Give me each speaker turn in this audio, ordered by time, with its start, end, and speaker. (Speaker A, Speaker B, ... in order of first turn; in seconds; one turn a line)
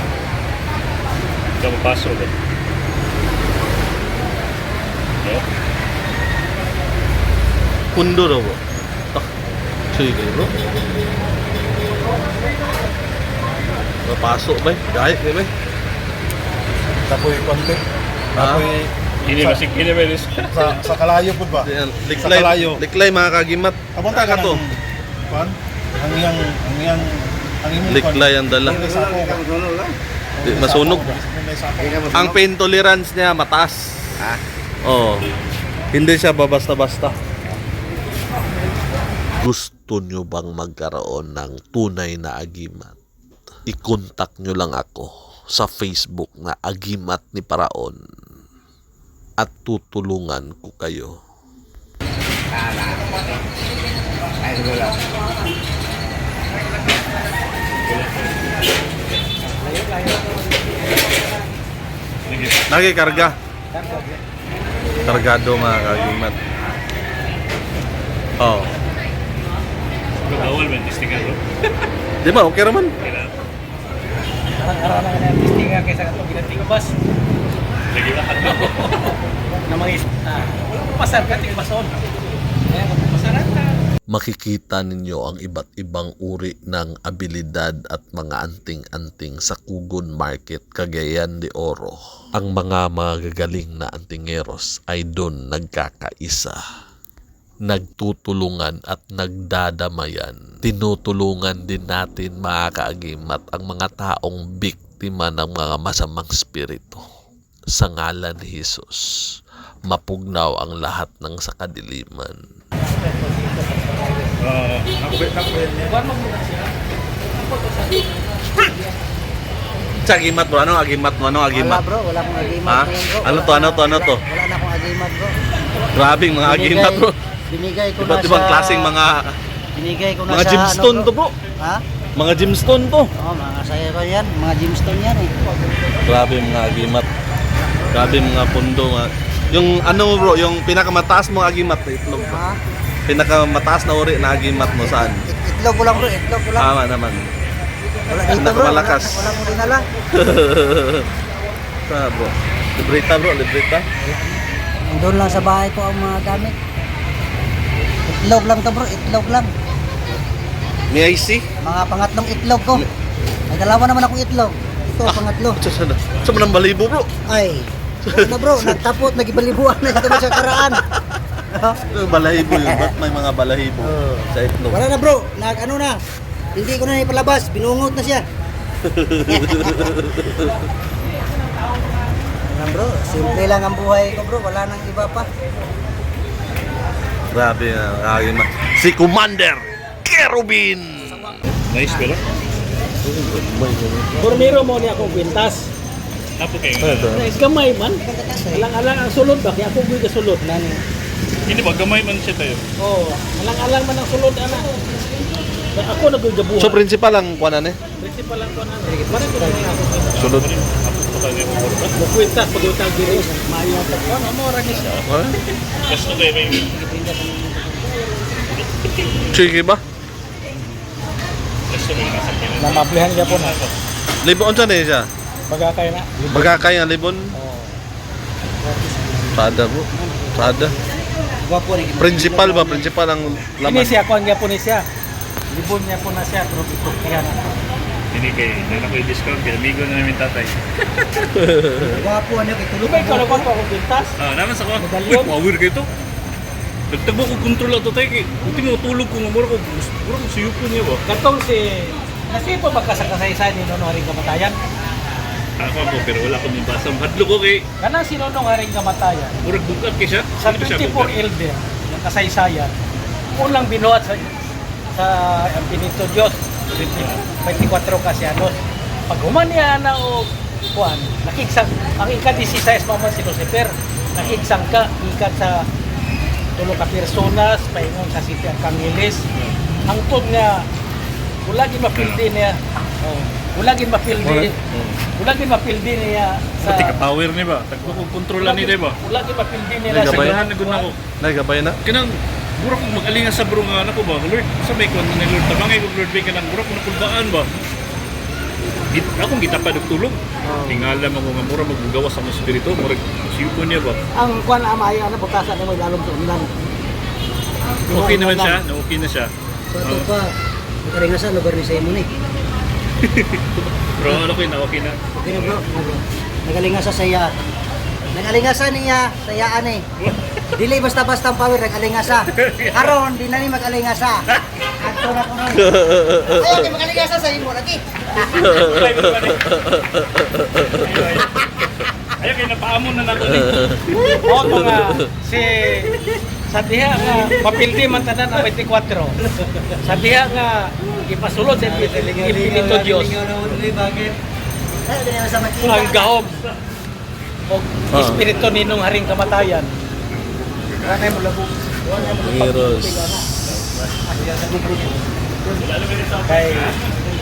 Speaker A: 1.6-2.3
Speaker B: 7.9-8.6
Speaker B: 9.9-10.5
Speaker B: 14.1-15.5
Speaker C: 17.1-17.8
Speaker B: 18.4-18.7
Speaker C: 18.4-19.6
Speaker A: 19.3-20.5
Speaker C: 20.5-22.8
Speaker B: 21.5-24.6
Speaker C: 23.9-29.5
Speaker B: 27.9-28.9
Speaker C: 30.4-32.4
Speaker B: 30.4-31.2
Speaker B: 32.1-34.3
Speaker B: 34.8-35.3
Speaker B: 35.9-37.2
Speaker D: 39.4-43.0
Speaker D: 43.7-48.0
Speaker D: 49.4-51.1
Speaker A: 57.9-58.4
Speaker E: 59.4-60.3
Speaker A: 62.3-62.7
Speaker B: 62.7-63.4
Speaker E: 63.7-64.2
Speaker B: 65.0-66.4
Speaker B: 68.4-68.7
Speaker A: 70.2-71.4
Speaker B: 72.2-72.9
Speaker A: 73.0-73.4
Speaker E: 74.6-76.9
Speaker A: 77.9-79.0
Speaker E: 79.7-82.0
Speaker E: 82.7-83.8
Speaker D: 84.1-96.6
Speaker D: 97.7-107.0
Speaker D: 107.7-109.1
Speaker D: 109.9-112.4
Speaker E: 112.9-114.3
Speaker A: 114.4-115.4
Speaker E: 115.8-116.7
Speaker E: 117.3-118.2
Speaker B: 120.0-121.8
Speaker F: 121.5-125.3
Speaker B: 122.7-124.2
Speaker B: 126.0-127.2
Speaker F: 126.4-129.0
Speaker B: 128.0-129.4
Speaker F: 129.8-131.8
Speaker B: 130.3-131.3
Speaker B: 132.2-133.1
Speaker F: 133.2-135.3
Speaker B: 136.1-137.1
Speaker B: 137.9-142.4
Speaker F: 142.3-142.6
Speaker B: 143.1-145.2
Speaker F: 144.8-146.7
Speaker B: 146.6-147.3
Speaker F: 148.1-149.9
Speaker B: 148.3-149.2
Speaker B: 150.1-151.1
Speaker B: 151.9-153.9
Speaker F: 154.0-156.6
Speaker F: 158.1-159.5
Speaker B: 160.9-161.5
Speaker F: 161.6-162.8
Speaker F: 163.5-165.6
Speaker B: 165.1-167.1
Speaker F: 167.3-170.8
Speaker B: 168.0-168.8
Speaker B: 169.9-170.7
Speaker F: 171.5-171.8
Speaker B: 171.9-174.8
Speaker F: 172.4-172.9
Speaker F: 173.8-176.0
Speaker F: 176.6-178.2
Speaker B: 178.8-180.5
Speaker F: 179.3-179.9
Speaker F: 182.5-185.3
Speaker B: 187.3-191.3
Speaker A: 191.7-192.2
Speaker B: 193.0-194.2
Speaker E: 194.2-195.7
Speaker A: 196.4-197.2
Speaker B: 196.8-197.3
Speaker E: 197.1-198.0
Speaker F: 198.0-198.7
Speaker E: 198.6-200.4
Speaker F: 200.4-200.8
Speaker A: 201.5-202.6
Speaker E: 202.8-204.7
Speaker E: 205.7-206.8
Speaker B: 206.6-207.8
Speaker E: 208.0-210.2
Speaker F: 208.8-210.1
Speaker B: 210.2-210.5
Speaker A: 210.2-211.9
Speaker E: 212.0-214.9
Speaker A: 214.8-215.0
Speaker B: 215.1-215.4
Speaker A: 215.9-216.7
Speaker E: 217.0-217.8
Speaker A: 218.4-219.3
Speaker B: 219.3-219.8
Speaker A: 221.7-223.7
Speaker E: 222.6-223.6
Speaker B: 224.2-225.1
Speaker E: 225.5-226.7
Speaker B: 226.3-227.3
Speaker E: 227.3-227.8
Speaker E: 228.6-229.3
Speaker B: 229.3-230.8
Speaker F: 229.9-230.8
Speaker F: 231.4-232.9
Speaker B: 232.0-234.0
Speaker E: 233.7-234.8
Speaker E: 235.5-237.6
Speaker A: 238.1-241.2
Speaker B: 241.4-242.0
Speaker F: 241.8-243.5
Speaker E: 242.8-244.1
Speaker A: 244.2-245.9
Speaker E: 244.8-245.3
Speaker A: 246.9-251.0
Speaker E: 251.1-254.6
Speaker A: 255.6-257.6
Speaker E: 257.8-259.4
Speaker A: 259.4-261.1
Speaker E: 260.4-262.8
Speaker E: 263.4-264.3
Speaker E: 264.9-268.6
Speaker A: 266.9-267.2
Speaker E: 269.1-275.6
Speaker A: 274.2-274.5
Speaker E: 276.6-279.2
Speaker E: 279.9-280.6
Speaker E: 281.4-282.6
Speaker A: 281.9-282.2
Speaker E: 283.4-284.6
Speaker B: 284.1-285.0
Speaker E: 285.1-287.0
Speaker A: 286.6-289.0
Speaker E: 288.4-290.9
Speaker B: 289.9-290.4
Speaker A: 289.9-291.0
Speaker B: 291.1-291.8
Speaker A: 291.8-297.5
Speaker A: 298.9-304.0
Speaker F: 300.5-300.9
Speaker F: 304.2-306.6
Speaker F: 307.9-308.6
Speaker A: 307.9-309.3
Speaker F: 309.7-310.3
Speaker A: 309.8-310.1
Speaker F: 310.9-312.1
Speaker A: 313.0-315.6
Speaker F: 315.2-317.4
Speaker F: 318.1-319.9
Speaker F: 320.6-324.3
Speaker A: 322.4-322.9
Speaker F: 324.8-328.5
Speaker A: 328.4-329.6
Speaker B: 330.2-330.6
Speaker A: 330.7-331.7
Speaker A: 332.2-334.6
Speaker E: 334.2-336.0
Speaker E: 336.5-339.2
Speaker E: 339.8-343.3
Speaker F: 341.6-344.2
Speaker F: 344.9-346.2
Speaker E: 345.6-346.4
Speaker E: 347.5-349.8
Speaker B: 347.9-348.3
Speaker E: 350.9-351.5
Speaker F: 351.9-353.2
Speaker B: 352.1-353.0
Speaker E: 354.2-354.9
Speaker A: 355.6-356.8
Speaker E: 356.2-356.7